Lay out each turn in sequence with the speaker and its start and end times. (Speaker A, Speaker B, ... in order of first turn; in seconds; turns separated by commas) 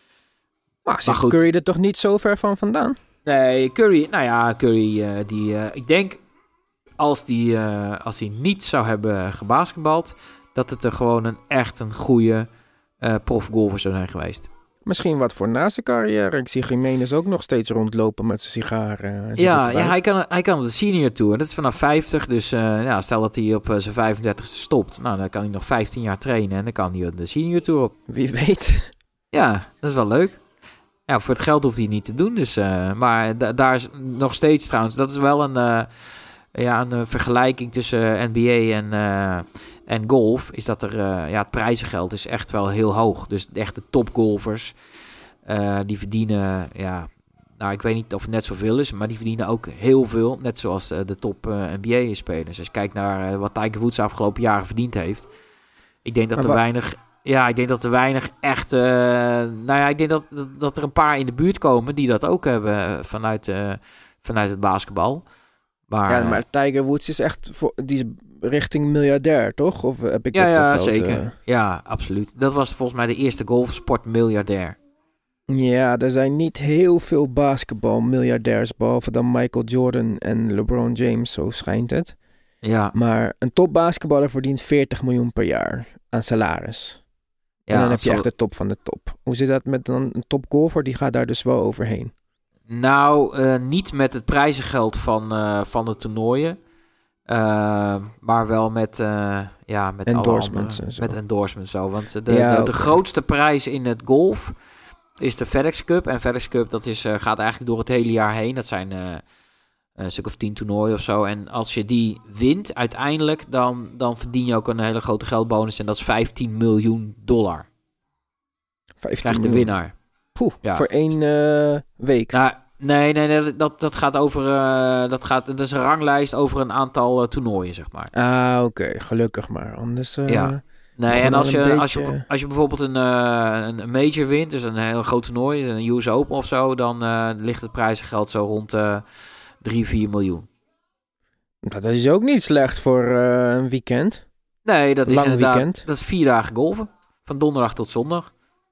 Speaker A: 0.8-3.0, Speaker B: 1.1-1.4, Speaker B: 3.3-6.2, Speaker B: 7.0-12.5, Speaker B: 13.0-14.5, Speaker A: 14.9-19.9, Speaker B: 19.4-27.9, Speaker A: 28.1-28.9, Speaker B: 29.3-30.4, Speaker B: 31.1-44.8, Speaker B: 45.5-55.3, Speaker B: 56.0-65.2, Speaker B: 65.9-66.4, Speaker A: 66.1-71.3, Speaker B: 70.3-74.8, Speaker A: 75.5-82.2, Speaker B: 82.6-82.9, Speaker A: 82.9-87.0, Speaker B: 87.7-88.3, Speaker A: 87.7-92.1, Speaker B: 92.7-96.6, Speaker B: 97.3-104.5, Speaker A: 100.1-101.2, Speaker A: 102.3-103.0, Speaker B: 105.2-109.2, Speaker B: 110.0-117.7, Speaker A: 119.0-119.7, Speaker B: 119.2-120.0, Speaker A: 120.4-122.4, Speaker B: 120.6-120.9, Speaker B: 122.3-128.1, Speaker A: 128.1-132.2, Speaker B: 130.3-139.1, Speaker B: 139.6-140.5, Speaker A: 141.6-144.2, Speaker B: 144.7-148.3, Speaker A: 145.1-145.8